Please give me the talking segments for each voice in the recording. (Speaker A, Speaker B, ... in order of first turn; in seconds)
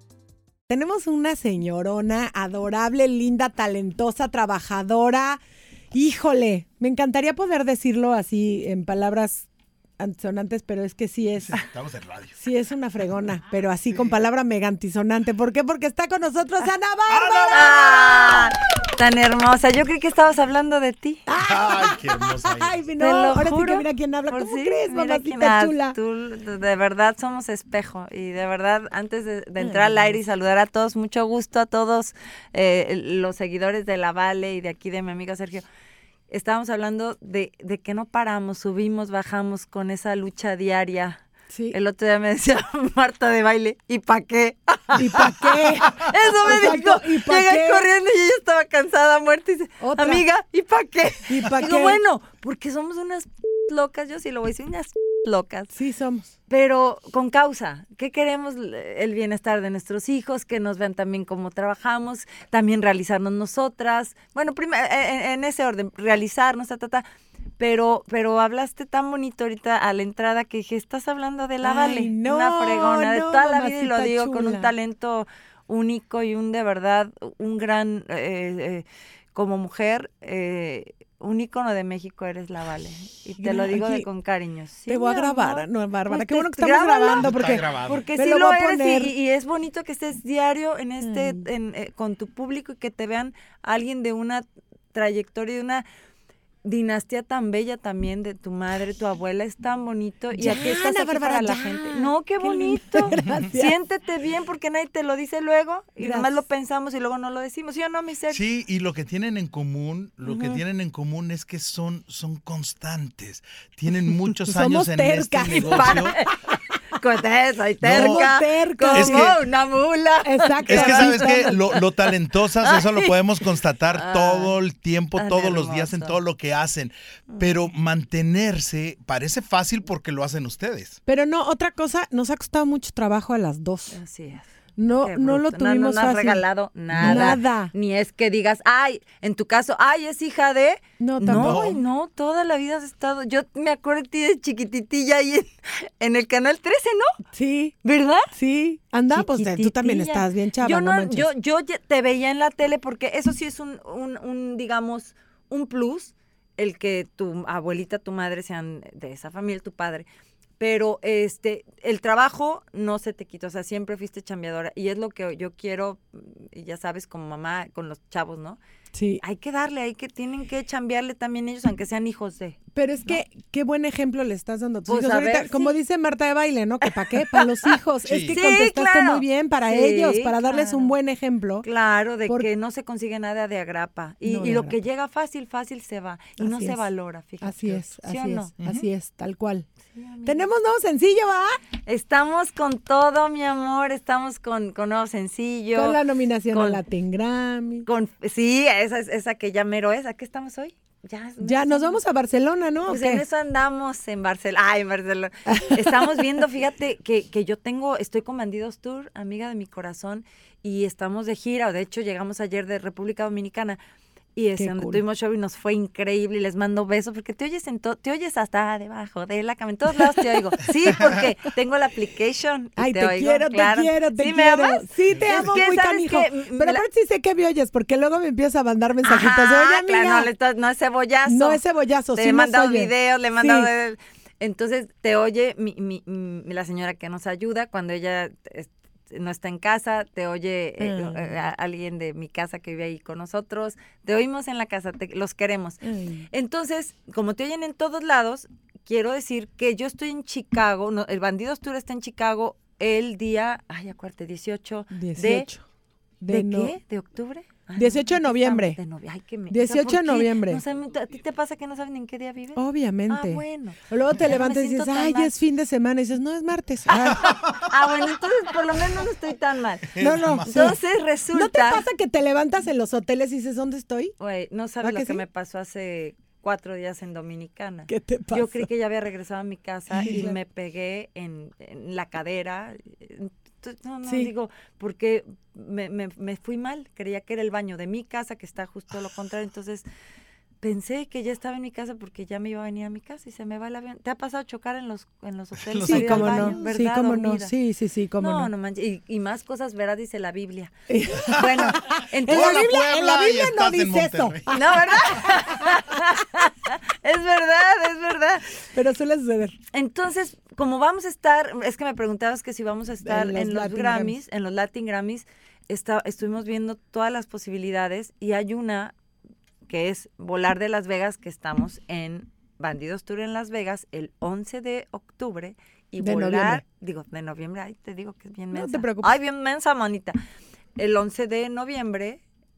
Speaker A: 0.7-5.4, 5.9-9.5, 10.0-11.5, 12.4-18.5, 21.3-26.0, 29.6-30.1, 41.5-41.8, 45.0-47.8, 49.8-50.2, 51.3-52.0, 55.7-56.3, 71.6-74.7, 83.4-84.1, 84.9-89.1, 91.0-91.4, 100.3-103.7, 106.0-106.3, 114.5-116.1, 117.9-119.3, 120.2-121.5, 131.1-134.0, 134.8-136.4, 137.0-137.7, 141.0-141.7, 147.3-147.8, 148.3-151.3, 168.9-169.2, 172.7-181.7, 184.2-184.8, 186.4-186.8, 187.4-189.7, 190.2-191.6, 195.8-197.9, 201.4-203.2, 205.5-205.9, 214.6-215.0, 222.8-230.3, 231.3-233.7, 240.8-241.3, 245.8-246.3, 254.9-255.6, 256.2-256.8, 257.8-258.8, 259.5-260.6, 262.6-267.4, 270.0-270.8, 271.3-274.1, 274.8-275.2, 277.9-278.7, 279.9-280.4, 284.1-284.3, 295.9-298.5, 300.9-305.7, 308.7-309.6, 313.0-314.1, 326.0-326.6, 328.5-329.2
Speaker B: 11.4-12.4, 17.1-18.4, 21.4-22.8, 87.2-88.1, 108.3-116.2, 117.8-118.3, 118.9-119.4, 120.7-131.0, 136.9-137.4, 141.3-141.8, 178.0-178.4, 188.6-188.9, 225.1-225.6, 269.9-270.8, 295.6-296.6, 302.3-305.3
Speaker C: 17.5-21.2, 23.0-35.6, 36.3-55.7, 56.5-67.0, 67.6-95.8, 96.6-108.4, 110.3-110.6, 115.5-121.8, 122.6-123.1, 123.9-124.5, 125.2-126.2, 127.3-127.6, 133.9-147.2, 147.8-148.3, 149.1-160.1, 160.6-168.6, 169.2-173.2, 174.9-175.8, 177.1-177.7, 178.3-180.9, 181.6-188.5, 189.9-190.4, 191.9-196.0, 196.5-196.8, 197.8-202.0, 202.9-213.8, 214.3-226.9, 229.0-231.6, 232.1-255.5, 256.3-265.3, 267.1-271.9, 274.2-289.9, 290.6-297.5, 298.2-302.6, 304.5-308.6, 309.7-318.9, 319.7-330.2, 330.8-332.2